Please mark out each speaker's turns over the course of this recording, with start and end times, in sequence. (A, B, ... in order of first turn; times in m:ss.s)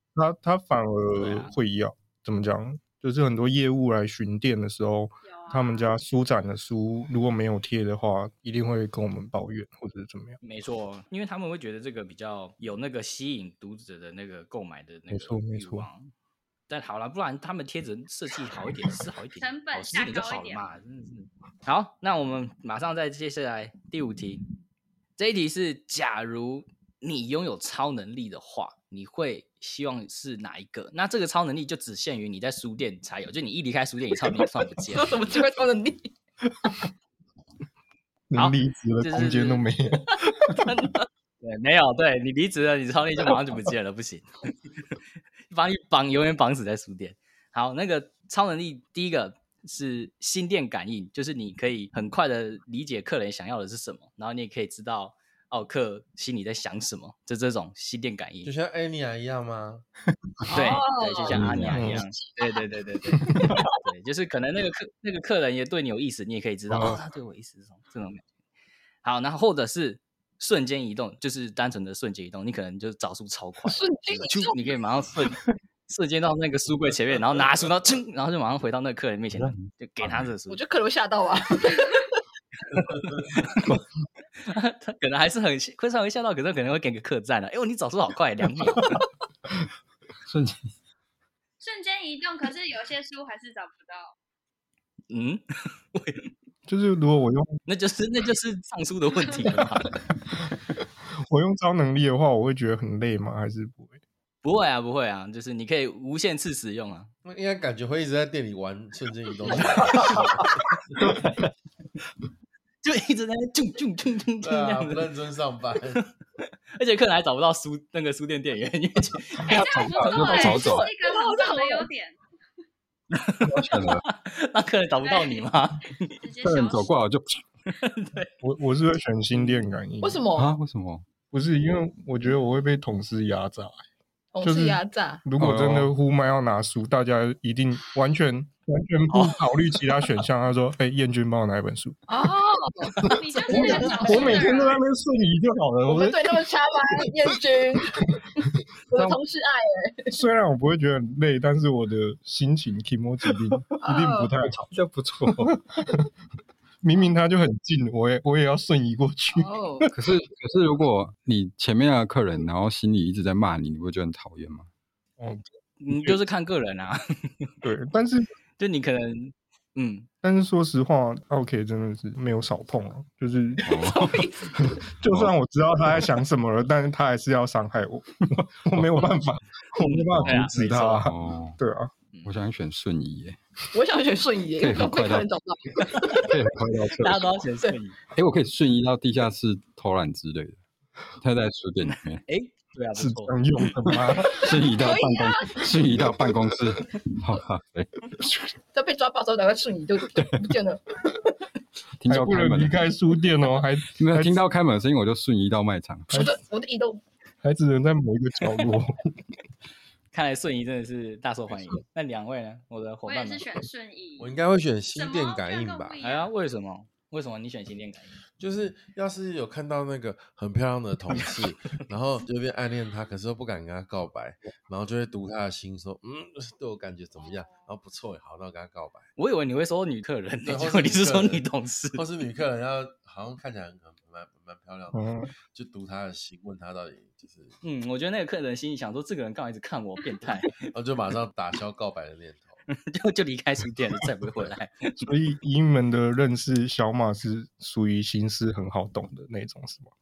0:00.2-0:10.4 A
0:01.2-0:01.5 B
0:05.2-0:06.0 C
0:10.4-0:16.1 B
0:15.1-0:15.9 A
0:16.7-0:24.4 B
0:19.4-0:20.7 C
0:25.2-0:35.2 B
0:34.9-0:36.1 D
0:38.3-0:40.6 A
0:38.4-0:39.7 B
0:40.5-0:41.1 D
0:41.4-0:45.0 B
0:45.5-0:58.5 B
0:58.4-0:59.8 E
1:00.5-1:02.6 D
1:00.5-1:08.2 B
1:01.3-1:02.0 F
1:01.7-1:02.0 A
1:09.0-1:20.6 B
1:13.6-1:14.6 D
1:19.4-1:20.3 F
1:20.5-1:22.2 D
1:22.7-1:23.8 B
1:24.4-1:29.0 B
1:30.3-1:30.6 F
1:31.6-1:34.2 C
1:35.1-1:35.4 B
1:35.9-1:36.3 B
1:36.7-1:37.6 A
1:37.7-1:39.9 B
1:41.2-1:44.0 A
1:44.4-1:47.1 B
1:47.3-1:50.5 E
1:49.5-1:50.4 B
1:52.8-1:55.1 B
1:54.4-1:56.0 E
1:56.8-2:00.6 B
1:59.5-2:02.2 C
1:59.5-2:00.9 F
2:00.2-2:01.9 D
2:03.1-2:06.1 B
2:03.4-2:04.0 F
2:05.0-2:05.5 C
2:06.1-2:06.9 C
2:06.4-2:07.4 F
2:07.7-2:08.3 B
2:08.4-2:10.2 A
2:10.0-2:10.5 D
2:10.4-2:11.0 F
2:11.3-2:13.8 A
2:14.3-2:15.3 D
2:14.4-2:22.0 A
2:15.4-2:15.9 F
2:19.1-2:19.4 B
2:22.1-2:23.0 D
2:23.0-2:24.4 B
2:23.1-2:24.8 C
2:23.5-2:24.6 D
2:23.5-2:27.1 A
2:25.9-2:30.2 D
2:30.1-2:34.7 A
2:33.8-2:34.3 D
2:34.5-2:35.6 F
2:35.3-2:36.1 A
2:36.8-2:39.9 A
2:39.3-2:39.9 D
2:39.9-2:44.7 F
2:45.2-2:46.2 A
2:45.8-2:47.5 B
2:47.6-2:48.3 A
2:48.6-2:50.1 B
2:50.2-2:53.7 A
2:53.6-2:55.3 F
2:53.7-2:54.6 D
2:54.7-3:01.9 A
2:58.3-2:59.0 F
2:59.8-3:01.0 B
3:01.0-3:01.6 F
3:02.2-3:03.4 F
3:03.7-3:06.4 D
3:04.6-3:05.3 F
3:06.2-3:07.4 F
3:07.0-3:08.0 B
3:08.1-3:10.6 F
3:11.2-3:12.2 F
3:12.2-3:13.4 B
3:13.0-3:14.5 A
3:13.9-3:17.9 F
3:14.4-3:15.9 D
3:18.7-3:21.3 D
3:20.2-3:20.4 F
3:22.0-3:22.8 F
3:22.1-3:24.4 A
3:24.0-3:26.2 F
3:26.1-3:27.0 D
3:27.4-3:29.1 A
3:30.1-3:33.5 B
3:33.1-3:34.4 C
3:34.2-3:36.0 E
3:34.9-3:36.3 C
3:36.0-3:38.2 B
3:38.4-3:49.1 E
3:47.2-3:47.7 C
3:49.2-3:52.0 B
3:50.4-3:57.6 E
3:54.9-3:55.3 A
3:57.6-4:00.6 B
4:00.7-4:02.6 E
4:02.7-4:05.1 B
4:05.0-4:09.9 A